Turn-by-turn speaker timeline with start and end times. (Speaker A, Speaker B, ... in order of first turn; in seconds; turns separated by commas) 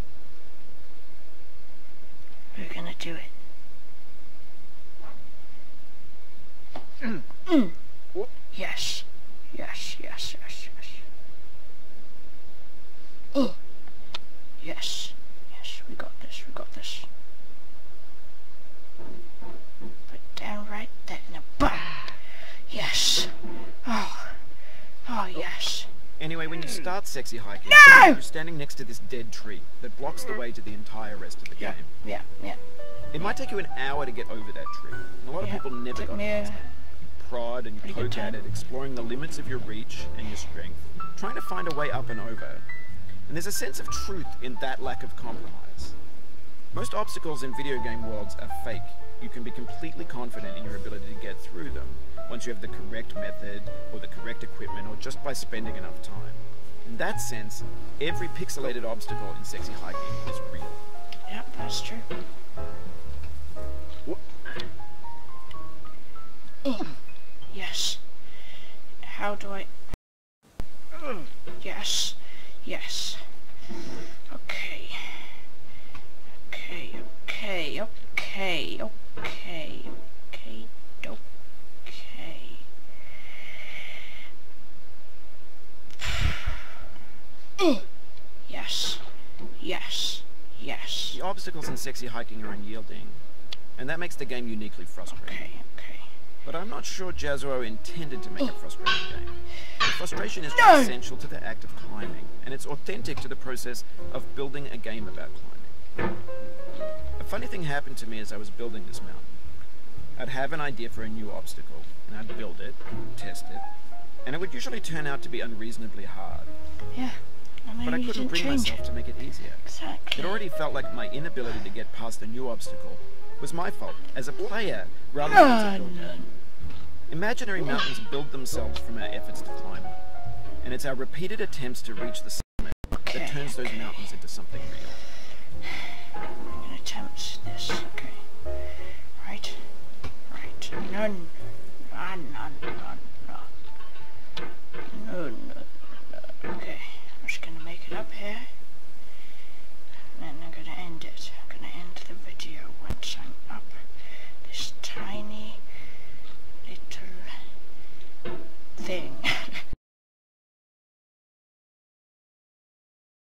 Speaker A: 2.5-3.3, Speaker A: 7.5-7.7, Speaker A: 8.5-11.0, Speaker A: 14.6-17.1, Speaker A: 20.1-24.5, Speaker A: 25.0-25.9, Speaker B: 26.2-31.9, Speaker A: 27.7-28.2, Speaker A: 31.6-32.6, Speaker B: 33.1-36.6, Speaker A: 35.4-36.7, Speaker B: 37.2-42.6, Speaker A: 37.8-38.4, Speaker B: 43.3-46.0, Speaker B: 46.7-60.8, Speaker A: 61.3-62.1, Speaker A: 66.6-66.9, Speaker A: 67.5-68.0, Speaker A: 69.0-69.7, Speaker A: 71.6-73.2, Speaker A: 74.3-75.4, Speaker A: 76.5-81.2, Speaker A: 81.8-82.6, Speaker A: 87.6-87.8, Speaker A: 88.5-89.0, Speaker A: 89.6-91.2, Speaker B: 91.1-93.2, Speaker B: 93.8-95.5, Speaker A: 95.1-96.0, Speaker B: 96.4-105.7, Speaker A: 100.5-101.0, Speaker B: 107.2-109.3, Speaker B: 110.2-113.6, Speaker B: 114.2-116.5, Speaker A: 116.9-118.8, Speaker B: 117.8-119.6, Speaker A: 119.6-120.4, Speaker B: 120.2-126.1, Speaker A: 125.2-126.3, Speaker B: 127.1-130.0, Speaker B: 130.6-135.0, Speaker A: 133.0-134.0, Speaker A: 136.4-138.2, Speaker A: 139.2-139.6, Speaker A: 140.3-141.3, Speaker A: 141.9-143.5, Speaker A: 144.9-148.5, Speaker A: 150.1-153.8, Speaker A: 154.4-155.6, Speaker A: 156.6-157.4, Speaker A: 158.8-159.7